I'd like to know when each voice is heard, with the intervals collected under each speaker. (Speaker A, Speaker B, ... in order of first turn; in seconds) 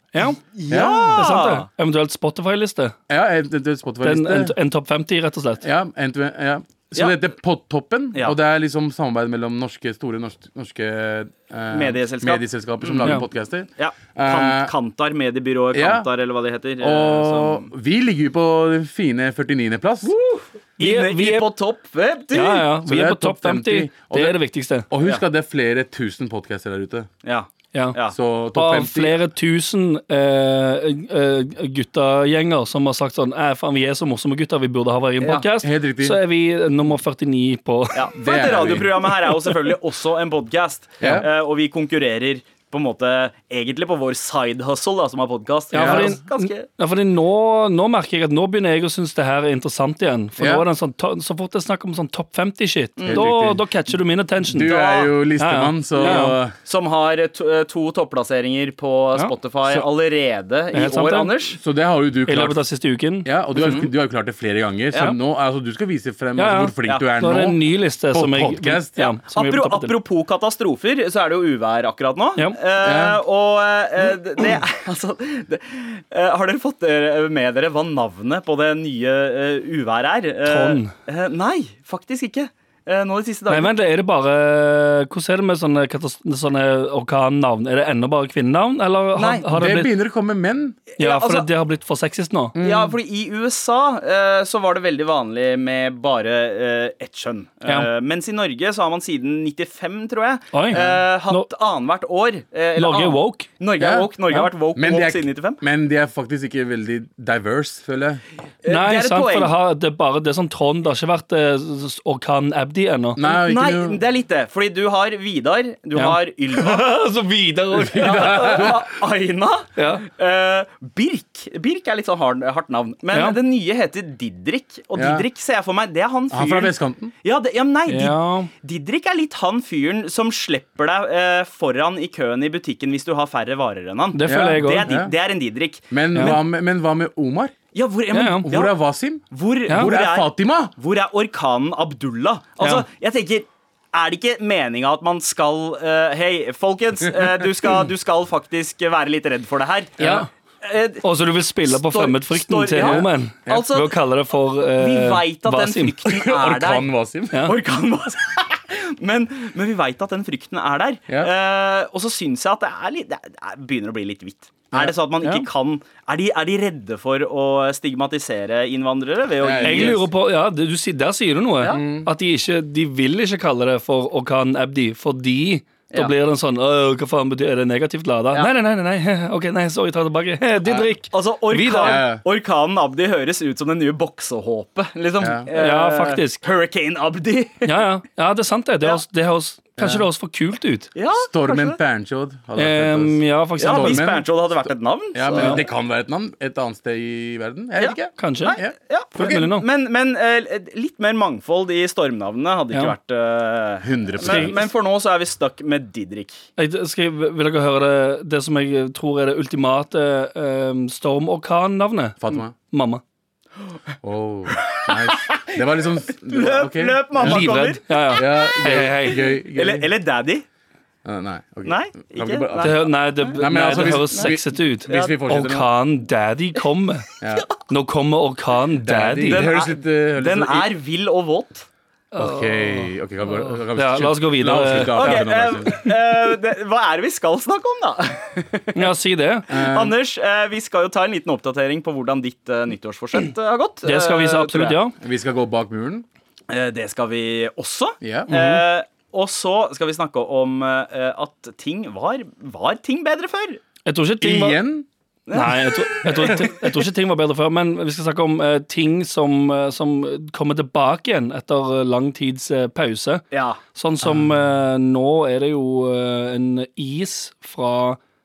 Speaker A: 0.1-3.0, 4.0-5.6, 20.8-21.5, 22.3-24.9, 28.5-38.1, 45.7-54.8, 55.4-56.3, 60.7-61.4, 62.2-63.3, 66.4-69.9, 80.5-80.9, 83.5-89.9, 91.0-92.5, 100.5-101.5, 102.8-103.5, 108.7-113.2, 116.0-118.7, 119.8-120.0, 123.1-123.4, 127.9-128.5, 134.1-134.9, 136.1-136.4, 138.1-138.4, 142.6-142.8, 150.0-150.3, 151.0-156.0, 169.6-182.1, 185.5-186.4, 187.6-190.9, 192.6-194.1, 195.3-195.6, 198.2-198.6, 199.1-199.7, 204.2-204.7, 206.6-213.0, 217.2-219.4, 222.6-229.5, 232.1-235.2, 238.7-239.5, 243.8-244.9, 248.3-248.6, 253.8-254.7, 255.3-268.0
Speaker B: 0.4-1.7, 11.7-13.2, 13.8-17.7, 20.0-22.7, 27.2-28.1, 35.2-35.5, 37.9-46.6, 53.0-53.3, 54.6-55.2, 56.0-61.6, 63.5-63.9, 69.0-83.7, 89.2-89.4, 91.0-91.5, 92.6-105.6, 108.6-109.5, 113.3-116.8, 117.9-135.9, 137.7-138.8, 139.3-150.1, 150.6-151.0, 151.7-153.9, 154.8-156.9, 157.4-170.0, 181.1-187.8, 190.9-191.8, 193.6-195.6, 197.8-206.4, 214.6-215.6, 216.2-220.4, 221.6-222.9, 223.7-224.3, 229.3-231.7, 234.9-238.9, 239.5-244.8, 246.5-253.6, 255.3-255.7, 263.3-263.6
Speaker C: 0.7-1.2, 3.1-4.5, 5.6-14.7, 15.7-16.1, 16.8-20.1, 22.8-24.4, 24.9-27.1, 28.1-29.2, 35.6-36.2, 38.2-39.2, 41.0-41.3, 45.7-46.1, 50.4-50.6, 53.0-53.6, 54.5-56.5, 61.6-62.6, 63.2-69.0, 72.8-73.2, 89.5-90.8, 92.5-92.9, 103.8-104.1, 104.8-108.2, 113.2-114.0, 117.8-118.8, 125.0-125.2, 126.3-127.1, 134.2-135.1, 135.9-137.5, 138.4-140.7, 150.0-150.2, 152.8-153.6, 156.0-157.5, 164.7-165.5, 169.4-170.1, 171.7-172.1, 181.8-182.2, 185.2-185.5, 189.8-190.1, 191.2-198.7, 203.8-204.6, 212.2-212.5, 214.0-217.5, 218.1-219.9, 221.0-225.7, 227.2-227.5, 228.8-230.7, 232.2-235.9, 239.5-239.9, 245.0-246.1, 248.0-248.3, 254.2-254.8, 256.0-256.5, 264.0-264.3